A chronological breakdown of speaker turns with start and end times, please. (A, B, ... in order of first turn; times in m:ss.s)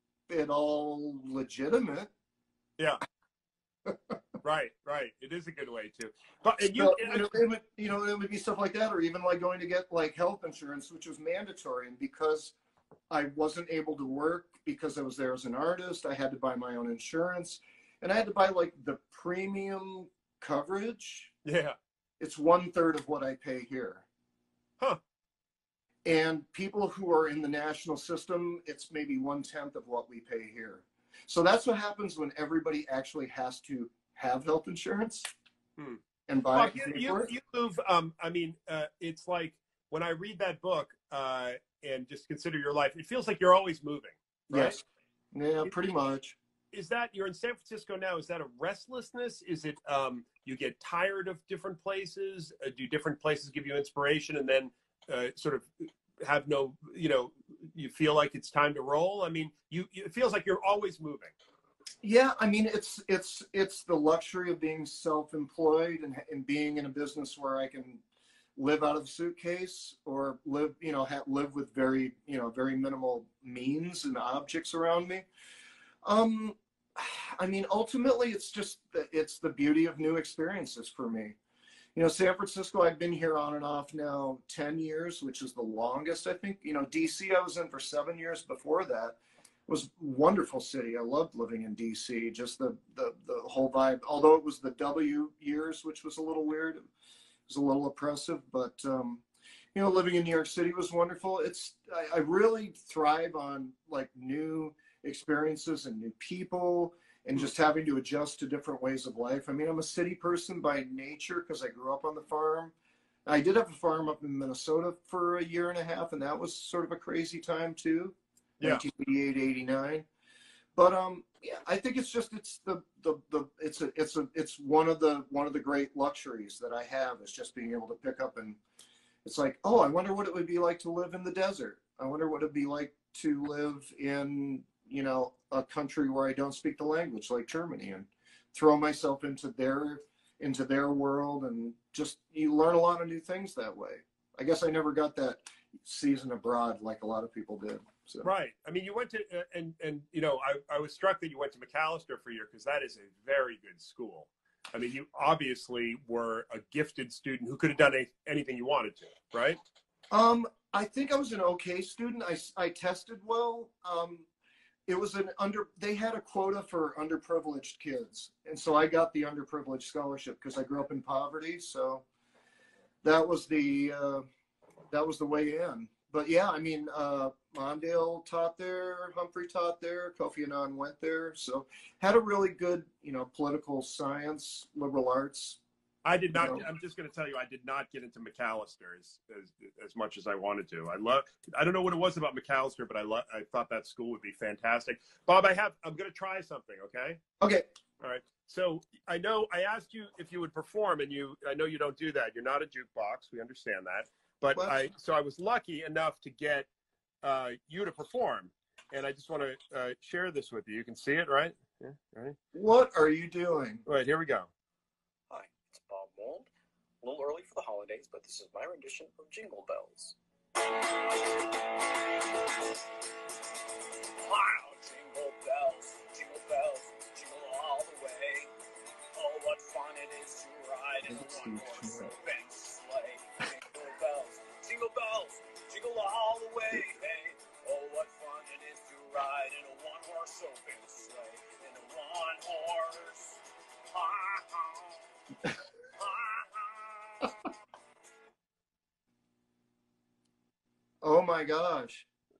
0:00.3-0:02.1 A
0:03.8-0:04.2 A
0:04.4-0:07.3 B
0:06.7-0:12.5 A
0:13.1-0:21.3 A
0:21.4-0:21.8 B
0:22.2-0:24.0 A
0:26.0-0:35.2 A
0:36.3-0:37.3 A
0:36.5-0:44.8 B
0:44.5-0:46.4 A
0:46.7-1:01.3 B
1:02.0-1:08.0 A
1:08.6-1:15.2 A
1:16.0-1:21.4 A
1:21.9-1:36.8 A
1:37.5-1:39.2 A
1:39.7-1:52.7 A
1:53.2-2:00.0 A
2:00.8-2:08.6 A
2:09.2-2:28.3 A
2:28.2-2:39.6 B
2:40.1-2:44.3 A
2:44.9-2:52.0 A
2:53.0-2:54.2 A
2:54.9-3:05.6 A
3:06.0-3:17.2 B
3:06.3-3:06.6 A
3:18.0-3:26.7 B
3:24.5-3:24.8 A
3:27.2-3:32.4 B
3:32.5-3:33.8 A
3:33.8-3:34.5 B
3:35.3-3:36.5 C
3:37.0-3:40.2 C
3:44.2-3:48.5 C
3:49.1-4:05.1 C
4:06.0-4:07.3 C
4:11.0-4:12.0 A